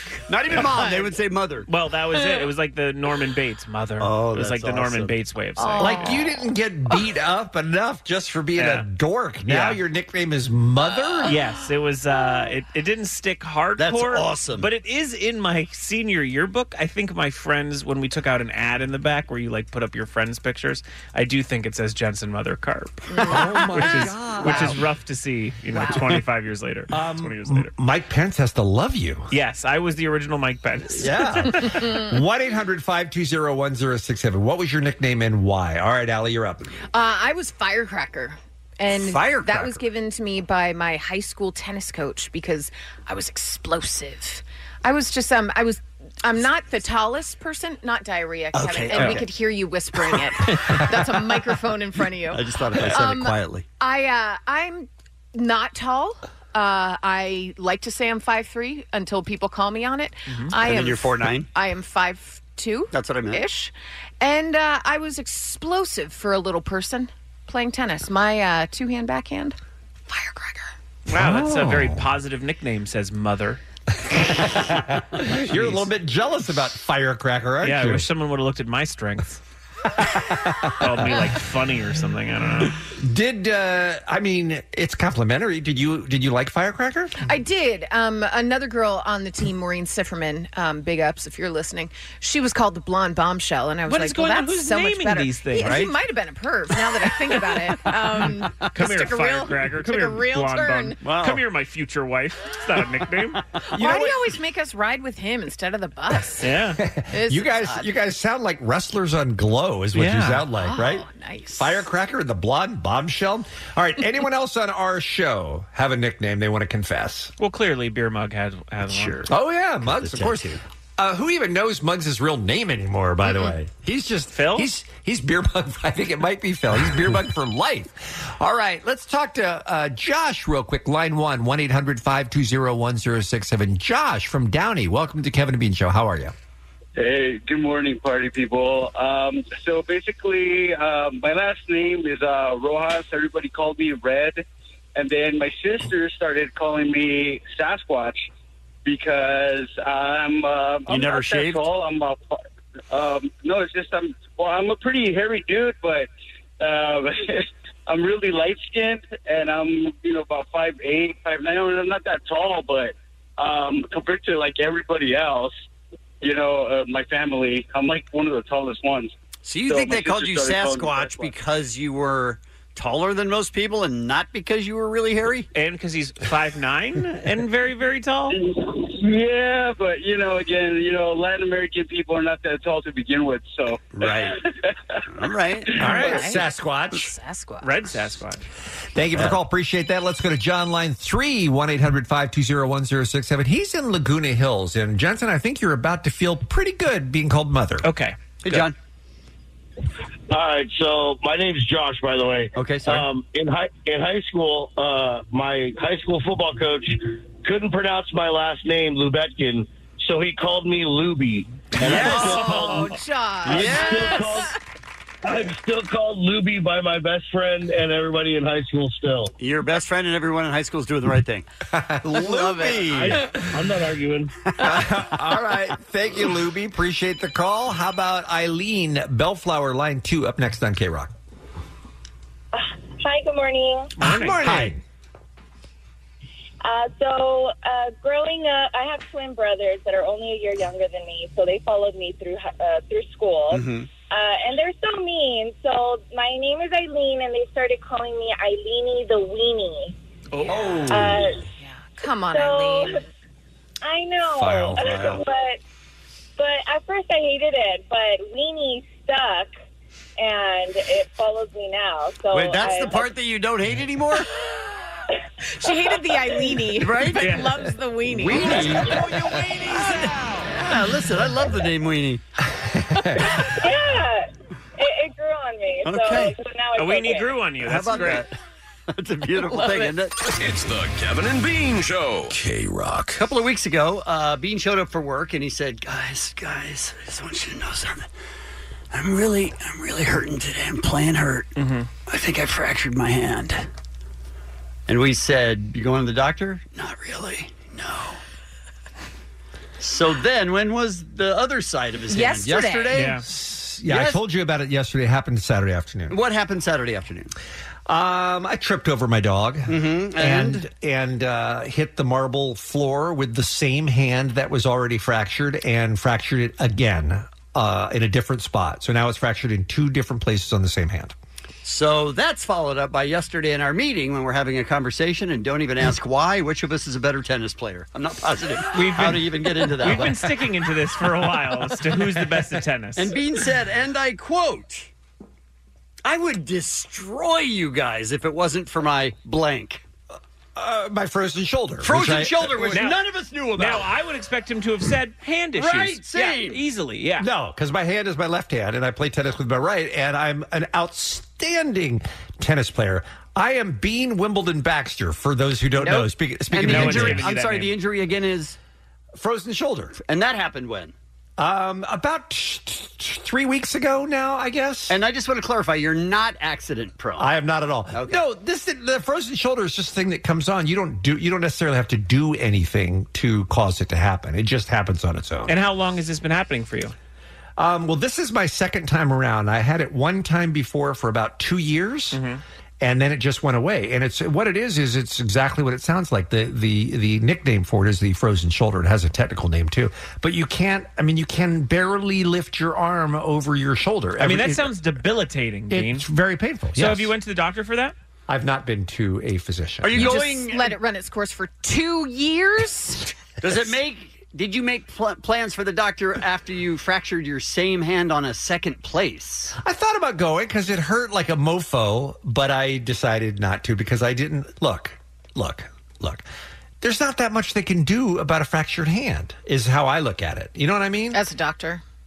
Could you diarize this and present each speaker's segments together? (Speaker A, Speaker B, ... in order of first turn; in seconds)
Speaker A: 0.3-1.7, 4.0-5.1, 13.8-14.7, 48.5-49.3, 52.3-53.6, 60.6-61.5, 62.9-63.4, 101.0-101.4, 118.9-119.3, 119.8-120.6, 150.9-151.7, 169.4-175.5, 183.9-184.4, 185.1-185.8, 198.4-198.7, 202.6-203.1, 211.8-212.8, 213.4-214.2, 219.4-221.4, 222.2-222.7, 243.5-243.9, 254.8-255.2, 262.3-264.2, 266.8-267.4, 268.1-272.2, 275.8-276.4, 277.6-278.3, 278.9-280.2, 283.1-288.1, 288.9-291.5, 292.1-293.7, 294.9-298.2, 299.8-303.2, 303.9-304.2, 306.1-307.3, 309.7-310.6, 321.6-330.2, 332.9-334.9, 336.0-339.8, 341.8-343.9, 345.6-346.6, 356.5-358.6, 360.0-360.9, 364.9-367.3, 367.9-368.2, 399.8-400.8, 403.4-409.5
Speaker B: 0.5-1.1, 5.6-6.3, 23.1-23.8, 31.7-32.1, 36.9-69.5, 70.1-70.7, 87.2-101.0, 103.7-106.5, 107.1-107.9, 110.5-111.8, 185.9-186.4, 186.9-187.8, 211.9-214.5, 251.6-253.0, 265.5-269.0, 302.1-303.0, 355.8-356.1, 399.9-403.1, 421.1-421.8
Speaker C: 1.6-6.1, 8.6-8.8, 9.5-9.8, 11.2-27.7, 29.3-31.8, 71.1-73.6, 75.5-75.9, 77.6-79.4, 80.8-82.8, 93.9-95.9, 98.7-103.4, 106.4-106.8, 109.9-110.4, 117.4-119.3, 124.3-124.7, 175.5-178.4, 187.6-188.4, 197.8-198.6, 233.9-234.7, 250.3-250.6, 267.2-267.5, 276.8-278.2, 291.6-291.9, 302.9-303.2, 328.7-333.1, 342.7-343.0, 343.6-347.3, 356.6-357.8, 375.5-376.9, 382.1-382.4, 394.2-396.1, 396.7-397.9
Speaker D: 5.8-11.4, 23.2-24.8, 26.9-29.3, 31.0-36.6, 39.3-39.7, 71.1-72.0, 74.1-78.1, 80.0-81.2, 83.0-87.2, 103.7-104.2, 106.8-111.0, 111.6-117.3, 119.3-136.3, 185.8-187.1, 188.9-197.9, 221.7-223.3, 224.6-231.1, 234.0-234.8, 250.5-251.3, 254.4-255.2, 272.6-273.3, 303.2-306.2, 307.9-321.1, 340.6-342.9, 347.2-357.3, 359.1-360.0, 361.4-364.9, 367.2-375.5, 377.6-382.2, 382.8-394.7, 395.7-397.1, 398.3-400.1, 409.6-416.2, 416.8-421.2
Speaker E: 137.0-144.4, 144.9-148.3, 148.8-152.4, 152.9-165.5, 166.2-169.1, 169.6-171.3, 178.3-184.7
Speaker F: 200.3-214.5, 215.2-219.3, 222.8-224.3
Speaker G: 232.5-233.9, 236.6-249.9, 250.9-251.3, 252.3-253.0, 253.8-255.6, 256.4-259.5, 260.2-263.0, 273.4-277.4
Speaker H: 280.3-283.2